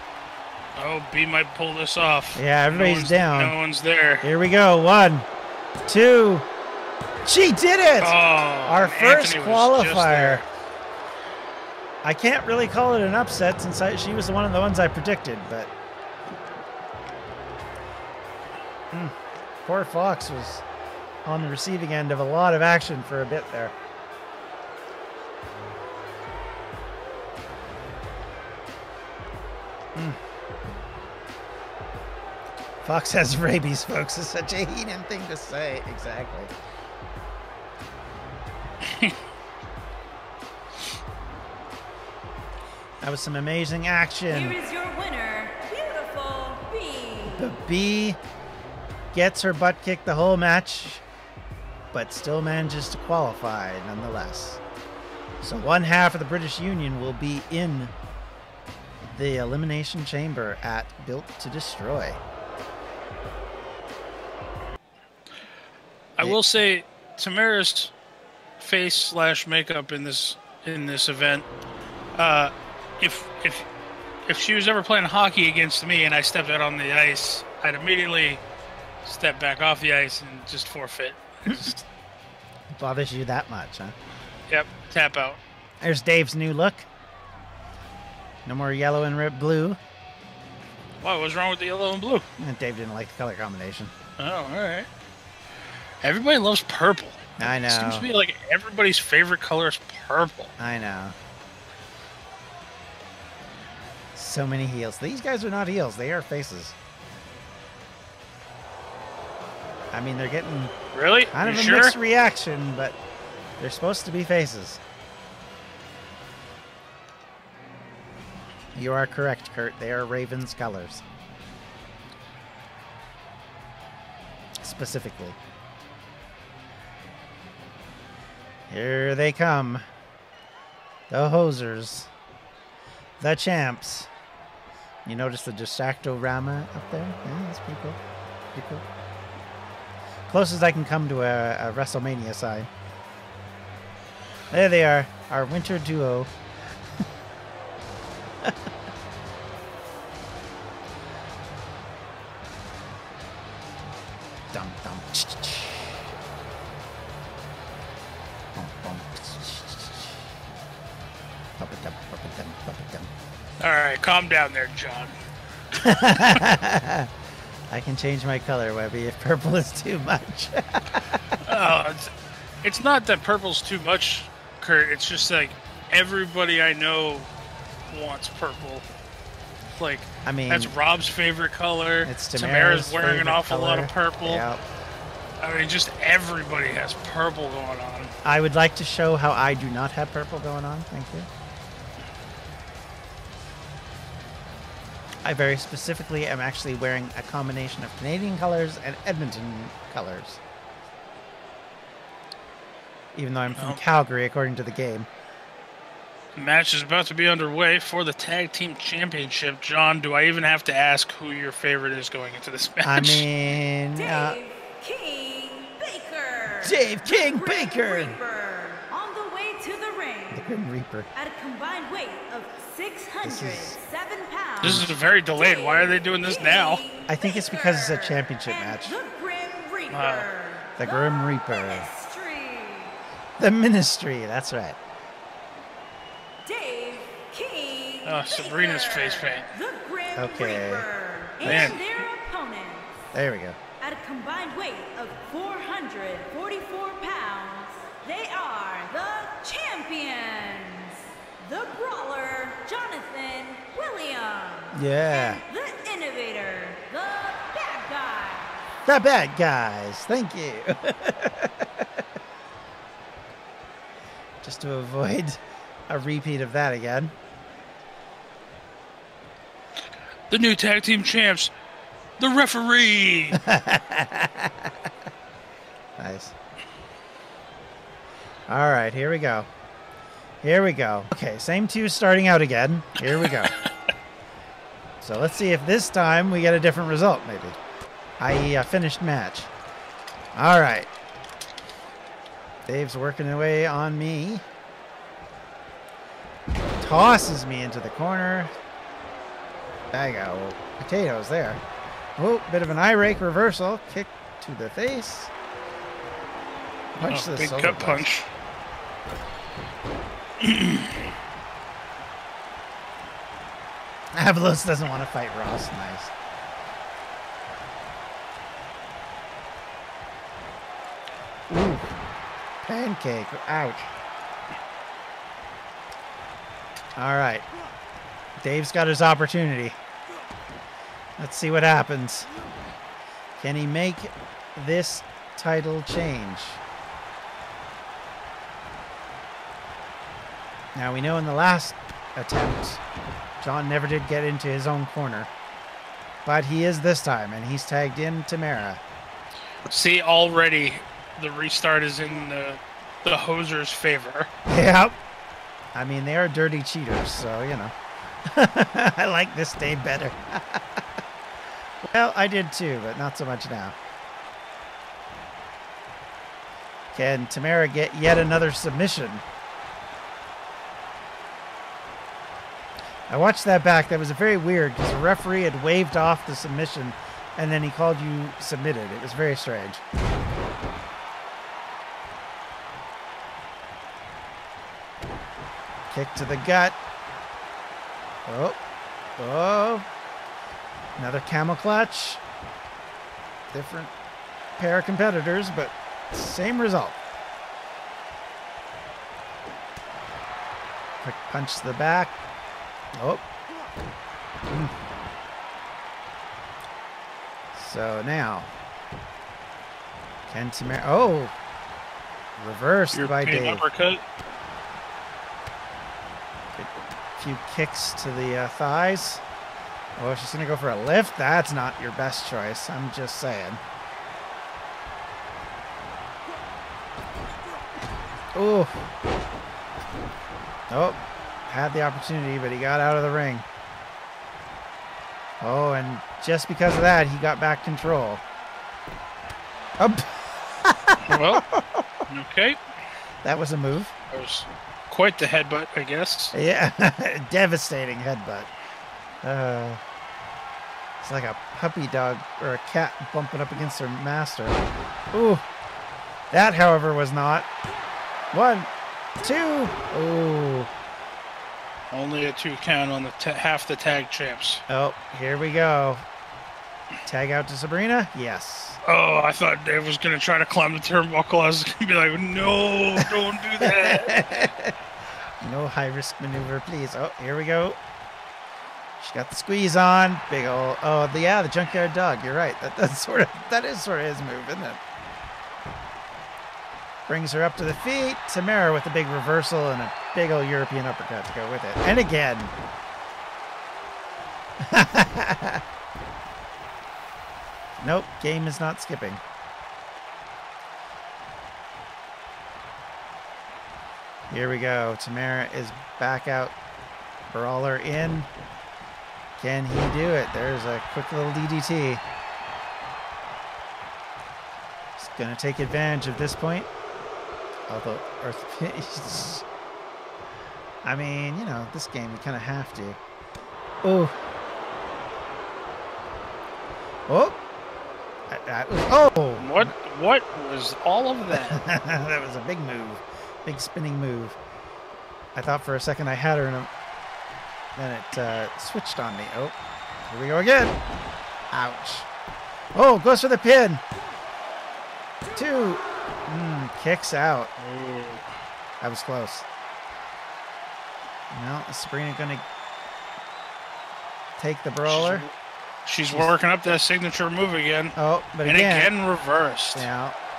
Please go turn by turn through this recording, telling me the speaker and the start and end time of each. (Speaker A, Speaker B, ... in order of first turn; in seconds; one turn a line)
Speaker A: 0.8-4.3
Speaker B: 2.3-3.5
Speaker B: 4.2-5.3
Speaker B: 5.8-6.5
Speaker B: 7.2-10.4
Speaker A: 8.0-10.4
Speaker B: 12.0-15.7
Speaker B: 18.9-20.6
Speaker B: 21.2-23.7
Speaker B: 32.8-36.5
Speaker A: 38.9-39.1
Speaker B: 43.0-44.6
Speaker C: 44.3-47.5
Speaker B: 47.3-48.2
Speaker B: 49.1-51.0
Speaker B: 51.9-54.6
Speaker B: 55.4-57.9
Speaker B: 59.0-62.2
Speaker A: 66.2-67.9
Speaker A: 68.6-71.5
Speaker A: 72.1-73.7
Speaker A: 74.2-78.4
Speaker A: 79.0-81.7
Speaker B: 81.5-81.8
Speaker B: 82.7-84.0
Speaker A: 84.5-85.4
Speaker B: 85.8-86.9
Speaker B: 88.5-89.8
Speaker A: 91.0-92.3
Speaker B: 92.4-93.9
Speaker A: 94.2-94.9
Speaker A: 96.0-100.5
Speaker B: 97.4-98.1
Speaker B: 100.6-101.2
Speaker B: 104.1-106.7
Speaker B: 109.9-110.7
Speaker A: 110.9-112.0
Speaker B: 111.3-113.0
Speaker B: 113.6-114.8
Speaker B: 118.8-121.0
Speaker B: 124.6-125.4
Speaker B: 128.7-129.8
Speaker B: 131.1-132.1
Speaker B: 133.2-134.1
Speaker B: 135.0-138.0
Speaker B: 138.5-138.8
Speaker B: 140.3-142.7
Speaker B: 144.5-146.3
Speaker B: 154.5-156.1
Speaker B: 158.5-160.2
Speaker B: 161.6-163.1
Speaker A: 163.6-165.1
Speaker A: 165.7-166.4
Speaker B: 165.8-167.1
Speaker B: 167.7-171.3
Speaker A: 171.4-172.1
Speaker A: 172.6-177.3
Speaker A: 177.9-178.8
Speaker A: 179.8-184.4
Speaker B: 180.2-180.7
Speaker B: 182.0-184.6
Speaker A: 185.4-188.1
Speaker B: 188.2-191.3
Speaker B: 195.2-200.4
Speaker B: 203.1-205.1
Speaker A: 203.6-203.8
Speaker A: 206.3-213.2
Speaker B: 212.8-214.4
Speaker C: 213.9-220.5
Speaker B: 216.6-218.2
Speaker B: 220.3-221.1
Speaker C: 221.1-232.9
Speaker B: 223.2-223.8
Speaker A: 224.6-226.8
Speaker B: 224.6-224.9
Speaker B: 227.1-229.0
Speaker A: 229.9-230.3
Speaker B: 230.8-231.9
Speaker B: 233.4-234.8
Speaker C: 236.4-243.0
Speaker A: 238.0-239.5
Speaker B: 240.2-240.8
Speaker B: 241.4-241.8
Speaker A: 241.4-242.0
Speaker B: 243.1-243.6
Speaker C: 243.8-258.6
Speaker B: 254.7-255.4
Speaker B: 258.8-262.0
Speaker B: 264.4-267.1
Speaker A: 270.3-271.5
Speaker A: 272.2-273.4
Speaker B: 273.3-274.9
Speaker B: 276.0-276.3
Speaker B: 278.5-279.5
Speaker B: 280.4-283.5
Speaker A: 283.2-283.7
Speaker B: 285.0-287.6
Speaker B: 288.2-289.5
Speaker B: 290.3-290.9
Speaker B: 292.6-294.4
Speaker B: 296.8-298.5
Speaker B: 299.9-301.6
Speaker B: 302.2-305.3
Speaker A: 307.0-308.3
Speaker B: 307.0-308.1
Speaker A: 310.4-311.0
Speaker B: 314.1-316.1
Speaker B: 321.5-321.9
Speaker B: 322.6-323.9
Speaker B: 326.9-327.4
Speaker B: 328.4-329.8
Speaker B: 331.2-332.3
Speaker B: 333.4-336.6
Speaker B: 340.7-342.8
Speaker B: 343.4-345.3
Speaker B: 346.2-348.8
Speaker A: 349.7-354.3
Speaker B: 354.5-355.0
Speaker B: 355.7-357.7
Speaker B: 358.2-360.8
Speaker B: 361.8-363.8
Speaker B: 366.9-369.2
Speaker B: 373.1-379.8
Speaker B: 385.9-386.8
Speaker B: 388.2-388.6
Speaker B: 389.2-389.9
Speaker B: 391.0-392.2
Speaker B: 393.5-393.9
Speaker B: 394.6-397.0
Speaker B: 401.0-402.1
Speaker B: 402.9-403.2
Speaker B: 404.5-404.7
Speaker B: 407.5-408.5
Speaker B: 410.3-411.3
Speaker B: 412.4-413.6
Speaker A: 412.9-414.0
Speaker B: 416.6-419.2
Speaker B: 420.0-423.6
Speaker B: 428.3-428.8
Speaker B: 430.7-433.4
Speaker B: 435.4-438.2
Speaker B: 439.8-441.9
Speaker A: 441.0-441.4
Speaker A: 442.1-442.6
Speaker B: 443.2-443.9
Speaker A: 444.1-446.3
Speaker B: 446.3-448.5
Speaker B: 449.2-449.8
Speaker B: 451.0-454.6
Speaker B: 455.1-455.4
Speaker B: 456.3-457.5
Speaker B: 458.3-458.7
Speaker B: 459.2-460.7
Speaker A: 461.9-464.6
Speaker B: 464.7-466.0
Speaker B: 467.1-468.8
Speaker A: 468.8-474.2
Speaker B: 473.6-474.8
Speaker B: 475.4-477.8
Speaker B: 479.0-484.8
Speaker B: 487.1-492.5
Speaker B: 494.6-495.6
Speaker B: 497.8-499.2
Speaker B: 504.3-506.5
Speaker B: 507.3-508.3
Speaker B: 509.4-512.0
Speaker B: 515.0-516.7
Speaker B: 517.7-519.4
Speaker B: 520.8-523.0
Speaker B: 523.8-524.1
Speaker B: 527.1-527.4
Speaker B: 528.3-529.7
Speaker A: 529.4-531.6
Speaker B: 531.3-534.4
Speaker B: 535.3-536.7
Speaker B: 537.8-539.5
Speaker B: 540.0-540.8
Speaker B: 541.5-542.1
Speaker B: 542.7-543.8
Speaker B: 545.3-547.5
Speaker A: 547.6-548.2
Speaker B: 548.8-549.5
Speaker B: 551.3-552.4
Speaker B: 554.4-555.2
Speaker A: 554.9-555.3
Speaker A: 555.9-559.9
Speaker B: 558.0-558.9
Speaker B: 559.7-560.2